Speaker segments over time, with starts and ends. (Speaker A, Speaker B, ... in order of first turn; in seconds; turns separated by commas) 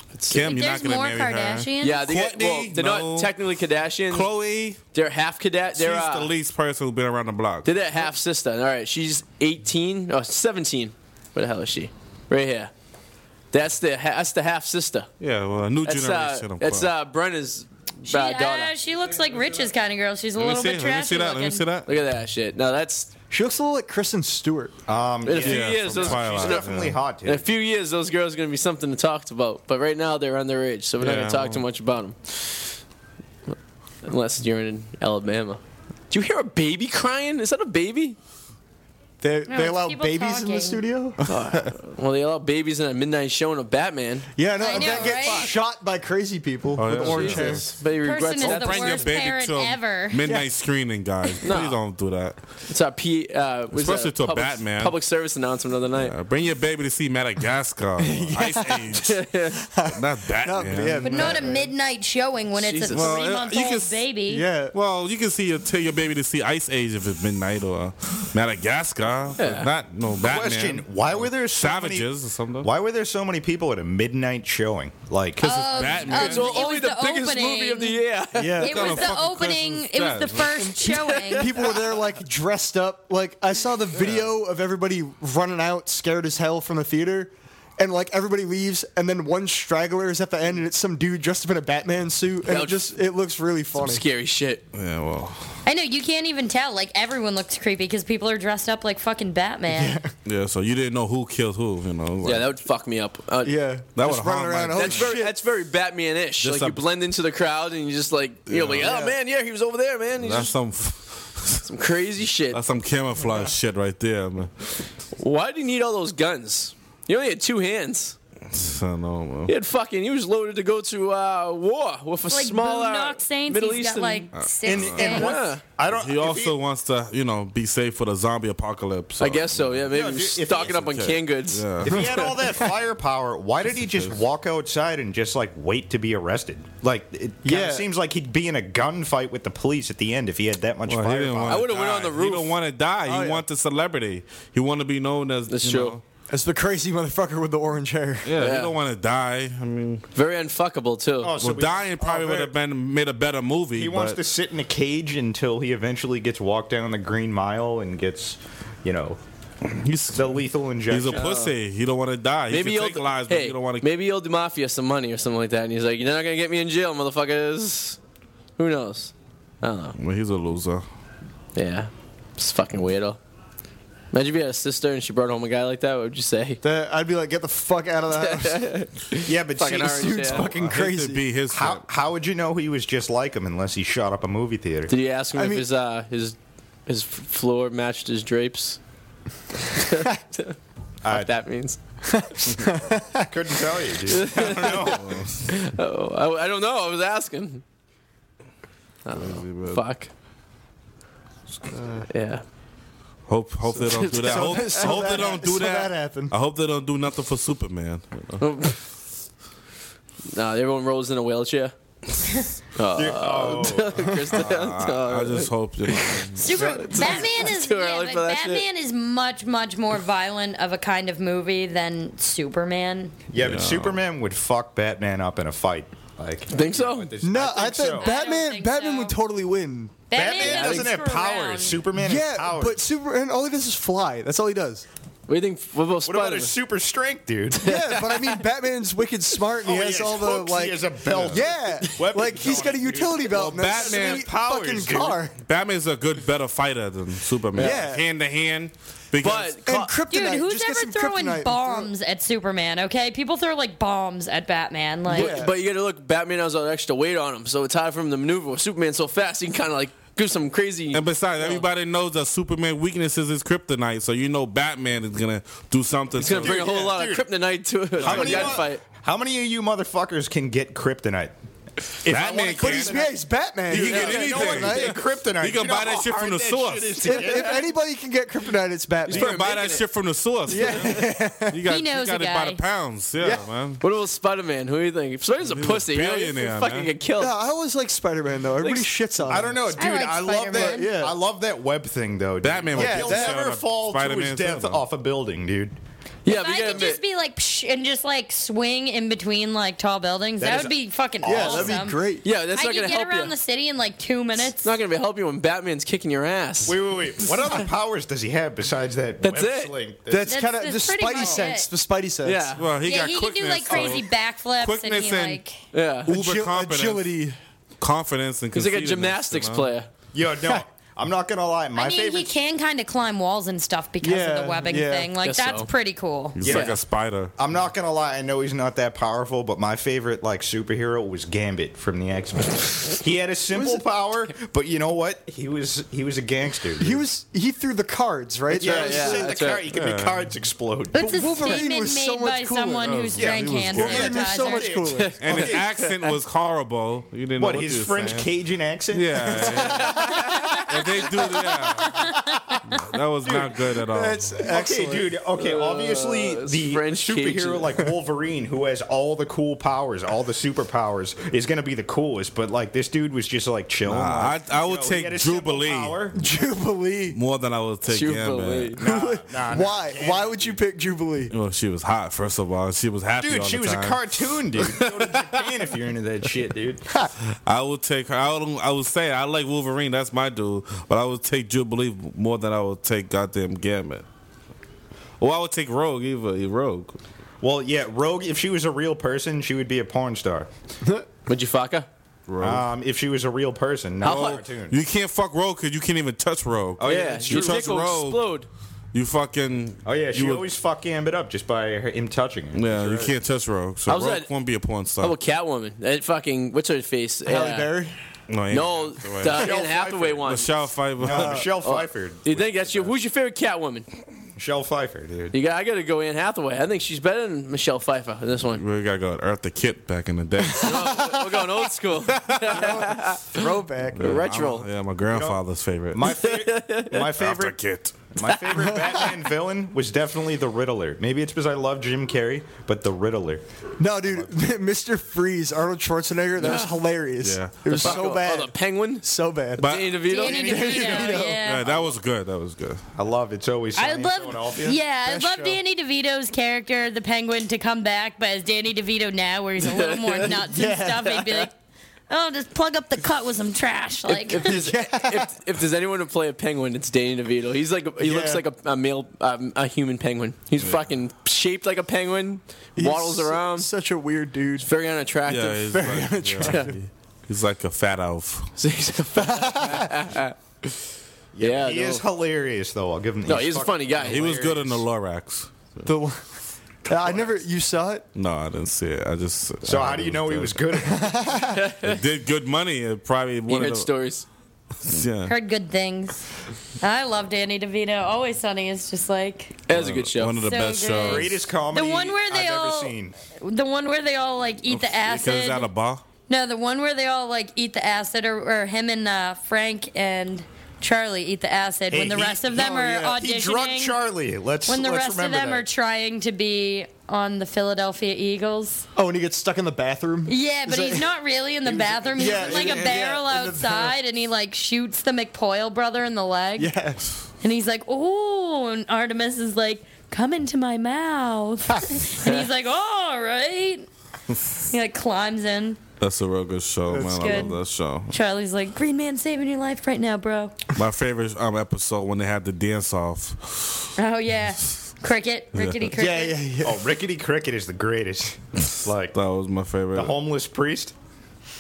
Speaker A: 0.1-0.5, Speaker B: 0.3-3.3, Speaker C: 0.3-2.1, Speaker A: 1.8-4.3, Speaker B: 4.1-4.8, Speaker A: 4.9-6.3, Speaker B: 5.8-7.8, Speaker A: 7.7-12.7, Speaker A: 13.5-15.1, Speaker B: 15.2-16.9, Speaker A: 15.8-18.7, Speaker C: 18.1-21.6, Speaker B: 20.4-21.9, Speaker A: 21.9-23.1, Speaker D: 23.3-24.8, Speaker E: 24.9-27.5, Speaker A: 25.2-26.7, Speaker B: 25.4-27.0, Speaker A: 27.2-32.8, Speaker B: 31.0-31.6, Speaker A: 34.0-38.2, Speaker D: 39.2-41.2, Speaker C: 39.5-40.8, Speaker B: 41.2-41.7, Speaker A: 41.3-45.5, Speaker D: 44.4-47.7, Speaker C: 44.6-45.6, Speaker B: 46.8-47.8, Speaker A: 47.0-49.1, Speaker C: 48.0-50.2, Speaker B: 48.4-52.4, Speaker A: 51.4-51.8, Speaker A: 52.7-56.1, Speaker B: 53.7-55.0, Speaker B: 56.0-59.2, Speaker D: 58.0-59.1, Speaker A: 59.0-59.6, Speaker D: 59.6-61.7, Speaker B: 59.9-61.5, Speaker C: 61.0-64.5, Speaker A: 62.5-63.2, Speaker B: 62.9-64.0, Speaker D: 64.3-64.7, Speaker B: 64.7-72.7, Speaker A: 69.4-69.7, Speaker E: 70.2-72.1, Speaker E: 72.6-76.2, Speaker B: 75.4-76.5, Speaker C: 75.4-78.0, Speaker A: 76.1-78.8, Speaker D: 78.3-79.1, Speaker B: 78.6-80.7, Speaker C: 78.6-81.6, Speaker A: 80.8-81.8, Speaker D: 81.4-94.0, Speaker A: 92.5-92.9, Speaker A: 93.8-94.6, Speaker B: 94.7-95.6, Speaker C: 95.7-100.0, Speaker D: 99.7-100.1, Speaker B: 100.2-102.5, Speaker A: 102.2-103.6, Speaker D: 103.4-105.3, Speaker B: 104.0-105.2, Speaker A: 104.7-110.5, Speaker B: 106.4-106.8, Speaker B: 108.5-109.0, Speaker D: 108.8-109.2, Speaker B: 110.2-111.7, Speaker A: 111.7-112.6, Speaker B: 112.5-114.7, Speaker A: 115.2-118.2, Speaker B: 118.5-119.5, Speaker A: 119.5-124.3, Speaker C: 122.3-125.4, Speaker B: 124.3-125.3, Speaker E: 124.7-126.6, Speaker A: 125.0-125.6, Speaker B: 125.9-132.1, Speaker A: 129.2-132.0, Speaker E: 129.9-130.8, Speaker E: 131.8-141.7, Speaker D: 137.4-137.8, Speaker B: 140.9-146.0, Speaker A: 141.5-142.5, Speaker D: 143.1-143.4, Speaker A: 145.5-146.0, Speaker D: 146.3-148.3, Speaker B: 148.2-150.0, Speaker A: 148.4-148.7, Speaker A: 150.1-151.3, Speaker E: 151.2-152.5, Speaker B: 151.4-154.2, Speaker E: 153.8-159.2, Speaker B: 159.7-163.9, Speaker E: 160.1-161.3, Speaker A: 161.1-161.5, Speaker A: 162.5-168.0, Speaker A: 168.6-170.0, Speaker B: 170.0-170.8, Speaker A: 171.6-173.2, Speaker A: 174.1-176.6, Speaker D: 176.6-178.7, Speaker A: 178.2-180.5, Speaker E: 179.2-180.4, Speaker D: 179.8-181.2, Speaker B: 180.3-181.8, Speaker E: 181.5-184.9, Speaker A: 184.9-186.4, Speaker D: 185.3-185.7, Speaker A: 186.9-188.8, Speaker A: 189.7-190.6, Speaker E: 191.0-191.3, Speaker A: 191.1-191.8, Speaker D: 192.1-193.3, Speaker E: 193.3-195.2, Speaker A: 194.1-197.6, Speaker B: 194.7-195.6, Speaker A: 199.1-200.1, Speaker B: 199.1-199.8, Speaker D: 201.8-202.1, Speaker A: 202.1-202.4, Speaker B: 203.3-208.4, Speaker D: 203.9-206.3, Speaker A: 203.9-204.6, Speaker A: 208.4-208.8, Speaker A: 210.3-211.8, Speaker A: 212.8-218.7, Speaker E: 212.9-214.3, Speaker B: 214.3-216.5, Speaker C: 216.4-223.2, Speaker D: 216.6-217.1, Speaker E: 223.3-228.1, Speaker B: 223.4-224.0, Speaker A: 226.5-227.1, Speaker D: 227.2-230.0, Speaker C: 228.0-229.2, Speaker C: 230.1-231.8, Speaker E: 230.1-232.8, Speaker A: 230.4-230.9, Speaker D: 232.0-234.9, Speaker A: 235.3-236.5, Speaker E: 236.1-237.7, Speaker A: 237.6-238.4, Speaker D: 237.6-245.3, Speaker E: 239.6-245.2, Speaker B: 243.3-244.3, Speaker B: 245.4-249.6, Speaker A: 247.6-247.8, Speaker D: 247.6-248.0, Speaker A: 249.2-249.9, Speaker D: 249.6-251.9, Speaker C: 250.1-255.4, Speaker D: 255.1-255.5, Speaker A: 255.1-261.6, Speaker B: 260.9-266.7, Speaker A: 266.2-268.8, Speaker E: 266.3-267.3, Speaker E: 268.0-271.3, Speaker B: 268.0-268.6, Speaker E: 272.0-273.1, Speaker B: 272.1-273.1, Speaker D: 272.1-275.0, Speaker B: 273.7-277.3, Speaker E: 273.7-277.8, Speaker A: 273.9-274.2, Speaker D: 277.0-279.4, Speaker A: 279.1-279.9, Speaker B: 279.1-283.8, Speaker D: 280.5-281.6, Speaker C: 281.7-282.6, Speaker D: 283.2-283.5, Speaker A: 283.8-287.3, Speaker B: 285.4-286.9, Speaker D: 287.2-289.6, Speaker A: 288.6-288.9, Speaker E: 289.2-295.8, Speaker C: 289.7-290.9, Speaker D: 290.5-291.2, Speaker B: 292.4-294.8, Speaker D: 292.7-293.4, Speaker A: 296.2-297.0, Speaker C: 296.3-304.7, Speaker E: 300.4-301.9, Speaker D: 301.2-302.2, Speaker A: 302.2-303.4, Speaker A: 304.6-306.8, Speaker E: 306.6-310.5, Speaker A: 309.2-309.7, Speaker D: 310.1-312.5, Speaker C: 310.3-311.7, Speaker A: 312.2-312.6, Speaker B: 312.6-315.4, Speaker C: 312.8-315.6, Speaker E: 313.7-314.0, Speaker A: 315.7-316.1, Speaker B: 316.1-317.1, Speaker D: 316.1-317.4, Speaker B: 317.8-319.7, Speaker A: 318.5-319.9, Speaker E: 320.1-322.4, Speaker C: 321.8-326.4, Speaker D: 324.0-325.1, Speaker A: 325.2-325.7, Speaker B: 326.4-327.3, Speaker E: 326.4-326.8, Speaker A: 326.5-326.8, Speaker E: 327.4-337.1, Speaker D: 333.5-333.8, Speaker D: 336.8-339.3, Speaker E: 338.5-341.2, Speaker A: 338.6-339.6, Speaker B: 339.7-340.3, Speaker C: 340.9-344.9, Speaker D: 341.0-343.0, Speaker B: 342.8-344.2, Speaker E: 343.2-345.4, Speaker D: 343.6-345.6, Speaker A: 345.0-345.8, Speaker B: 345.2-348.3, Speaker E: 347.4-349.9, Speaker B: 348.9-352.1, Speaker D: 349.6-350.2, Speaker C: 350.1-351.0, Speaker C: 351.5-353.0, Speaker B: 352.7-354.4, Speaker D: 353.8-355.1, Speaker E: 354.4-366.2, Speaker A: 355.4-357.7, Speaker B: 363.9-366.0, Speaker D: 366.2-367.2, Speaker B: 367.1-368.8, Speaker A: 367.9-368.8, Speaker E: 368.8-370.6, Speaker D: 368.8-371.3, Speaker B: 371.3-375.5, Speaker E: 373.2-376.9, Speaker B: 377.4-384.1, Speaker B: 385.2-387.0, Speaker E: 387.4-390.5, Speaker A: 391.3-391.9, Speaker B: 392.3-392.7, Speaker E: 392.4-394.8, Speaker A: 394.0-394.4, Speaker B: 394.0-398.3, Speaker E: 396.8-397.6, Speaker A: 396.8-398.5, Speaker B: 398.9-400.5, Speaker E: 399.9-403.1, Speaker B: 402.6-405.2, Speaker A: 403.9-404.3, Speaker A: 405.0-407.7, Speaker D: 407.3-407.9, Speaker B: 408.3-409.5, Speaker A: 408.5-410.5, Speaker E: 409.3-410.4, Speaker B: 410.2-411.5, Speaker E: 411.0-412.9, Speaker D: 411.0-411.4, Speaker A: 411.6-413.9, Speaker E: 414.4-415.4, Speaker A: 415.3-418.6, Speaker B: 418.6-421.1, Speaker D: 420.6-421.5, Speaker A: 420.6-423.4, Speaker D: 422.4-424.2, Speaker B: 423.9-426.1, Speaker A: 424.0-424.7, Speaker E: 425.1-425.4, Speaker E: 425.9-427.6, Speaker A: 426.1-427.1, Speaker B: 427.1-428.0, Speaker E: 428.1-433.4, Speaker A: 428.3-429.1, Speaker D: 433.8-441.4, Speaker E: 434.0-434.3, Speaker A: 436.4-436.8, Speaker B: 437.2-438.0, Speaker A: 437.7-439.1, Speaker B: 439.6-440.0, Speaker A: 439.6-441.4, Speaker C: 440.0-441.8, Speaker E: 440.2-442.0, Speaker B: 441.4-442.8, Speaker E: 443.0-444.8, Speaker C: 443.8-451.5, Speaker D: 445.1-445.6, Speaker A: 449.6-450.4, Speaker D: 450.3-451.2, Speaker C: 452.1-454.6, Speaker A: 454.1-463.7, Speaker D: 454.5-455.3, Speaker D: 458.0-458.4, Speaker D: 462.8-464.7, Speaker A: 464.6-465.7, Speaker B: 465.3-468.5, Speaker D: 465.7-466.7, Speaker A: 466.4-466.7, Speaker A: 468.6-470.8, Speaker D: 469.2-469.9, Speaker E: 471.3-474.6, Speaker A: 471.4-472.1, Speaker A: 473.3-474.6, Speaker B: 474.0-475.9, Speaker D: 475.9-476.2, Speaker D: 476.9-478.1, Speaker B: 478.1-480.7, Speaker E: 479.6-481.2, Speaker D: 480.8-481.6, Speaker A: 481.5-482.0, Speaker B: 481.8-483.9, Speaker A: 483.5-484.3, Speaker B: 484.8-485.3, Speaker C: 485.2-486.2, Speaker C: 486.8-489.6, Speaker A: 489.7-490.4, Speaker B: 489.7-491.3, Speaker C: 490.4-495.7, Speaker E: 491.0-493.1, Speaker B: 494.7-496.0, Speaker C: 496.3-504.0, Speaker E: 501.9-505.7, Speaker D: 502.7-502.9, Speaker C: 504.7-508.9, Speaker D: 508.9-511.1, Speaker C: 510.3-516.8, Speaker E: 511.7-513.1, Speaker D: 511.7-513.9, Speaker D: 516.6-517.1, Speaker C: 517.4-523.9, Speaker C: 524.7-525.8, Speaker B: 526.0-528.1, Speaker D: 526.9-527.6, Speaker C: 527.2-527.6, Speaker C: 528.1-530.6, Speaker B: 530.7-533.9, Speaker C: 534.0-536.4, Speaker B: 535.5-535.9, Speaker D: 536.0-536.8, Speaker E: 536.6-539.2, Speaker B: 539.1-540.1, Speaker E: 539.9-541.0